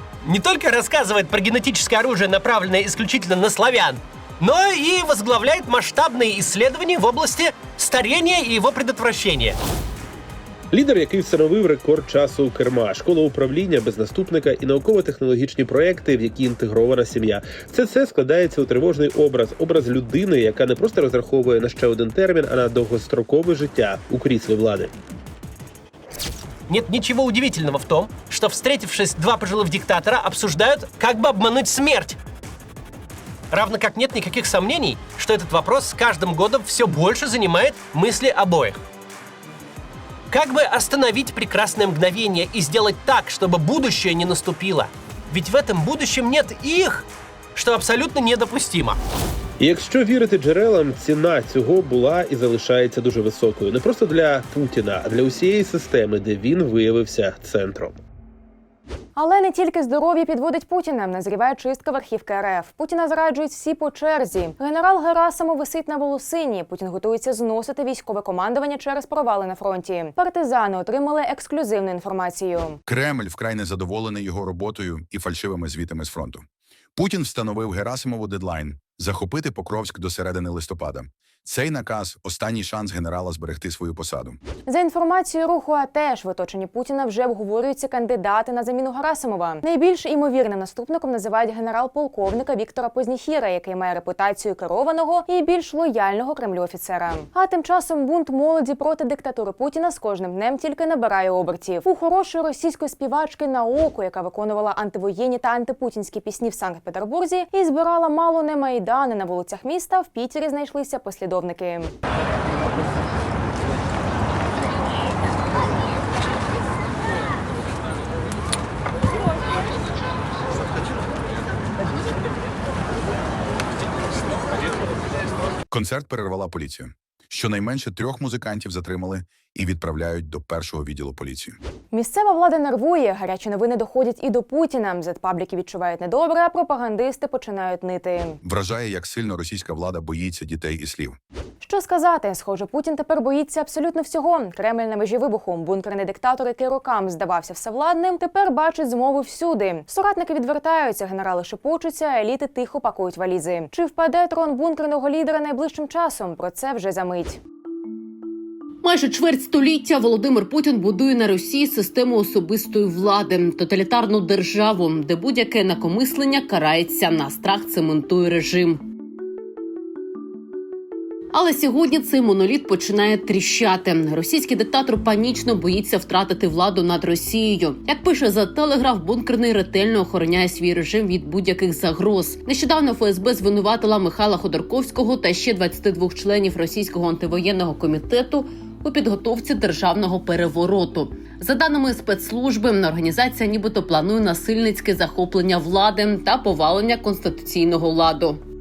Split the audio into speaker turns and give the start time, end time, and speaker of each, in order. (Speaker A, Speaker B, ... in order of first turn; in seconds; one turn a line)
Speaker A: 0.2-9.6
Speaker B: 10.7-24.9
Speaker A: 26.7-32.2
Speaker A: 33.5-38.8
Speaker A: 40.3-49.0
Speaker B: 49.6-58.0
Speaker C: 59.2-72.8
Speaker D: 72.9-76.4
Speaker D: 77.0-84.4
Speaker C: 84.7-111.9
Speaker D: 125.7-131.6
Speaker C: 131.9-138.4
Speaker D: 138.4-141.2
Speaker C: 141.6-157.4
Speaker E: 158.8-168.8
Speaker E: 171.3-198.4